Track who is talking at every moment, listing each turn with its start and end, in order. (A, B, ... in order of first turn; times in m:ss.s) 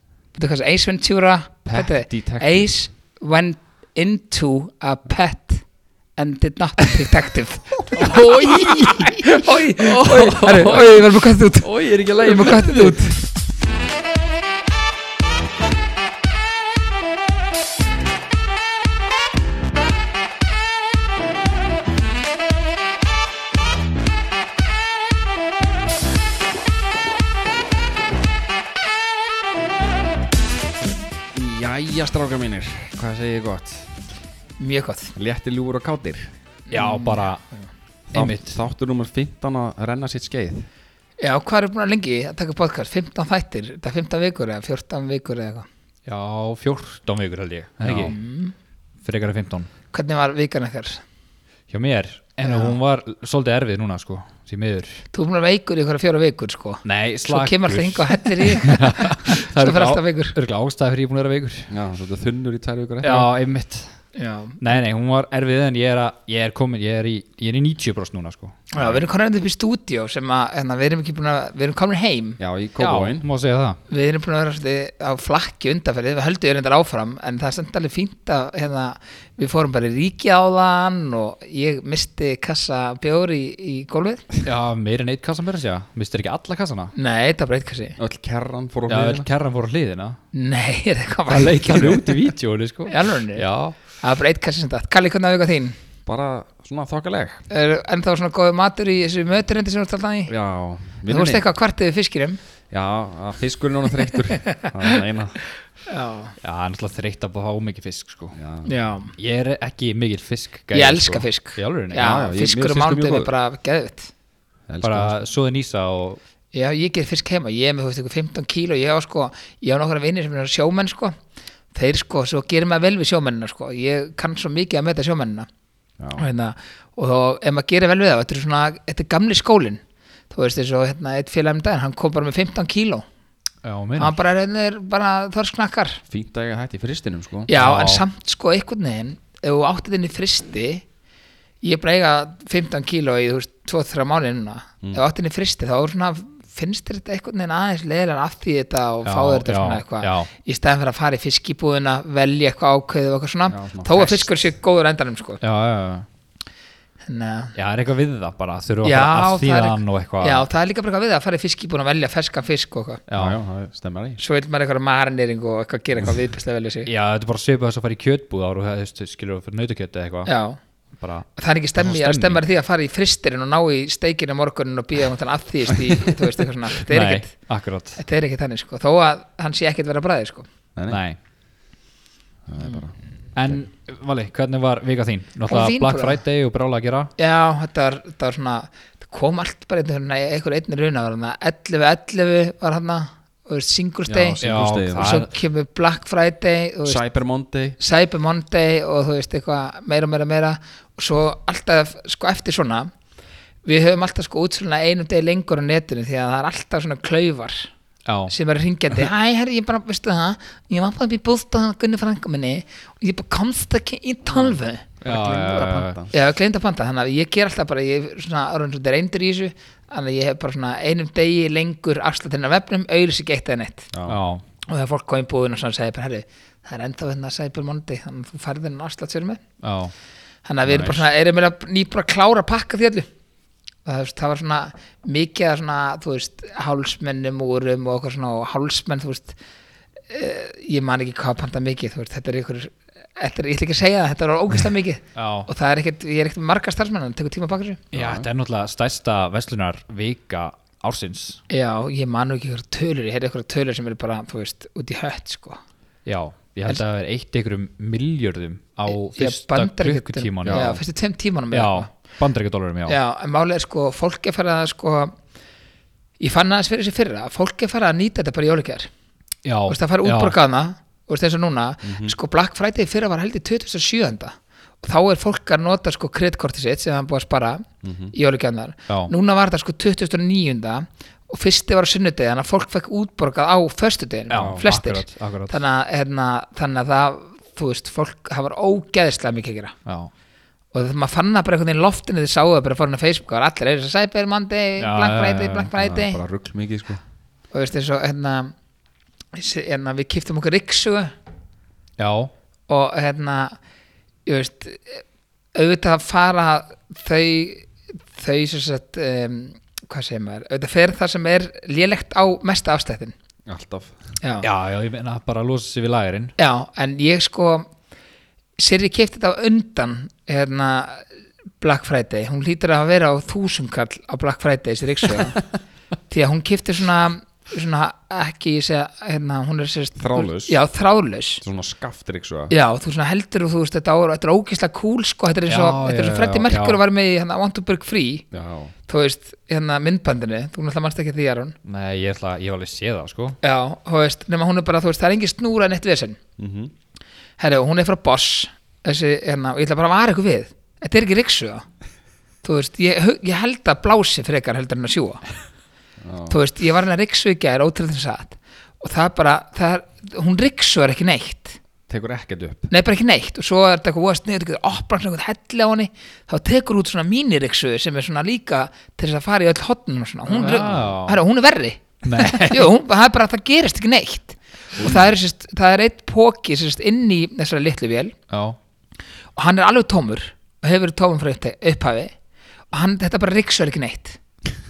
0:00.4-0:05.6 A
0:01.7-0:02.7 B
0:06.2-0:13.2 A
0:08.0-0:11.0 C
0:11.6-0:13.1 C
0:31.3-0:33.9 B
0:34.6-0:35.1 A
0:35.2-0:36.3 B
0:36.7-0:37.7 A
0:36.7-0:37.4 C
0:38.1-0:40.7 B
0:38.1-0:38.6 C
0:41.2-0:45.7 A
0:46.1-0:48.2 C
0:47.9-0:48.5 A
0:49.0-0:49.7 C
0:49.9-0:51.0 A
0:51.7-0:55.0 C
0:52.4-0:52.8 A
0:55.1-1:00.4 A
0:56.8-1:01.7 C
1:01.7-1:03.3 B
1:03.0-1:03.9 C
1:04.2-1:04.6 A
1:04.6-1:08.6 C
1:08.7-1:12.4 A
1:12.4-1:13.3 B
1:12.8-1:13.8 C
1:13.9-1:24.3 A
1:24.4-1:26.9 C
1:27.0-1:28.0 A
1:28.0-1:29.3 B
1:28.9-1:30.2 C
1:30.3-1:32.1 A
1:31.3-1:33.8 C
1:32.9-1:35.8 A
1:36.1-1:37.4 B
1:37.5-1:40.3 A
1:40.3-1:41.5 B
1:41.1-1:42.4 A
1:42.7-1:45.4 B
1:44.5-1:45.0 A
1:45.9-1:46.3 A
1:46.4-1:48.4 C
1:48.3-1:48.7 B
1:48.7-1:49.1 A
1:49.2-1:52.1 C
1:50.7-1:54.1 A
1:51.9-1:53.3 B
1:54.7-1:55.2 B
1:54.8-1:56.2 C
1:56.5-2:01.2 A
2:01.7-2:05.5 A
2:06.0-2:06.2 B
2:06.2-2:13.0 A
2:13.6-2:14.2 C
2:14.0-2:16.0 A
2:16.1-2:17.5 B
2:17.5-2:20.8 A
2:17.6-2:18.0 C
2:21.6-2:35.4 A
2:29.0-2:30.3 C
2:33.5-2:34.3 B
2:35.4-2:36.1 C
2:37.0-2:37.5 A
2:37.6-2:40.5 C
2:38.8-2:43.0 A
2:43.1-2:43.4 C
2:43.2-2:44.2 B
2:44.2-2:46.9 A
2:46.9-2:50.3 C
2:50.3-2:50.6 A
2:51.0-2:52.4 C
2:51.4-2:57.3 A
2:56.9-2:58.0 C
2:58.0-3:00.4 A
3:00.9-3:01.2 C
3:02.5-3:02.9 B
3:03.4-3:07.1 C
3:05.5-3:06.2 A
3:07.2-3:14.4 A
3:14.1-3:15.2 B
3:14.4-3:15.3 C
3:15.0-3:17.0 A
3:16.8-3:17.8 B
3:17.8-3:22.9 A
3:23.7-3:27.7 A
3:28.1-3:28.3 C
3:28.3-3:34.8 A
3:34.4-3:36.1 B
3:35.0-3:36.0 C
3:36.1-3:43.9 A
3:43.9-3:44.2 B
3:44.1-3:44.4 C
3:44.7-3:49.4 A
3:49.6-3:49.9 C
3:50.5-3:53.1 A
3:50.7-3:51.1 B
3:53.8-3:59.4 A
4:00.1-4:07.8 A
4:05.2-4:05.5 C
4:07.9-4:08.3 B
4:07.9-4:11.4 C
4:11.5-4:15.6 A
4:16.1-4:20.8 C
4:18.9-4:21.9 A
4:20.4-4:20.8 B
4:21.5-4:23.0 C
4:22.9-4:25.2 A
4:26.2-4:28.9 A
4:29.4-4:30.4 C
4:29.7-4:49.8 A
4:31.8-4:32.2 B
4:37.8-4:38.1 B
4:44.3-4:45.6 C
4:44.4-4:44.7 B
4:50.7-4:56.2 A
4:54.8-4:55.7 C
4:55.7-4:57.0 B
4:57.5-4:58.5 A
4:59.4-5:01.1 A
5:02.0-5:02.3 C
5:02.7-5:03.6 A
5:04.3-5:05.0 A
5:05.6-5:13.1 A
5:13.5-5:14.0 B
5:14.2-5:14.5 A
5:14.4-5:16.4 C
5:16.4-5:17.7 A
5:18.6-5:21.1 A
5:21.6-5:25.4 A
5:26.1-5:31.4 A
5:30.0-5:30.6 B
5:31.4-5:32.5 B
5:32.5-5:38.2 A
5:35.5-5:36.8 C
5:38.3-5:38.7 B
5:38.9-5:41.6 A
5:41.6-5:43.4 C
5:43.4-5:46.2 A
5:46.4-5:46.7 B
5:47.4-5:51.6 A
5:52.4-5:55.2 A
5:56.0-5:56.4 B
5:56.3-6:01.6 A
6:01.9-6:02.7 B
6:02.7-6:18.2 A
6:10.4-6:11.2 C
6:10.6-6:10.9 B
6:12.0-6:12.7 C
6:14.8-6:15.1 B
6:18.3-6:18.6 C
6:19.4-6:22.1 A
6:22.7-6:24.2 A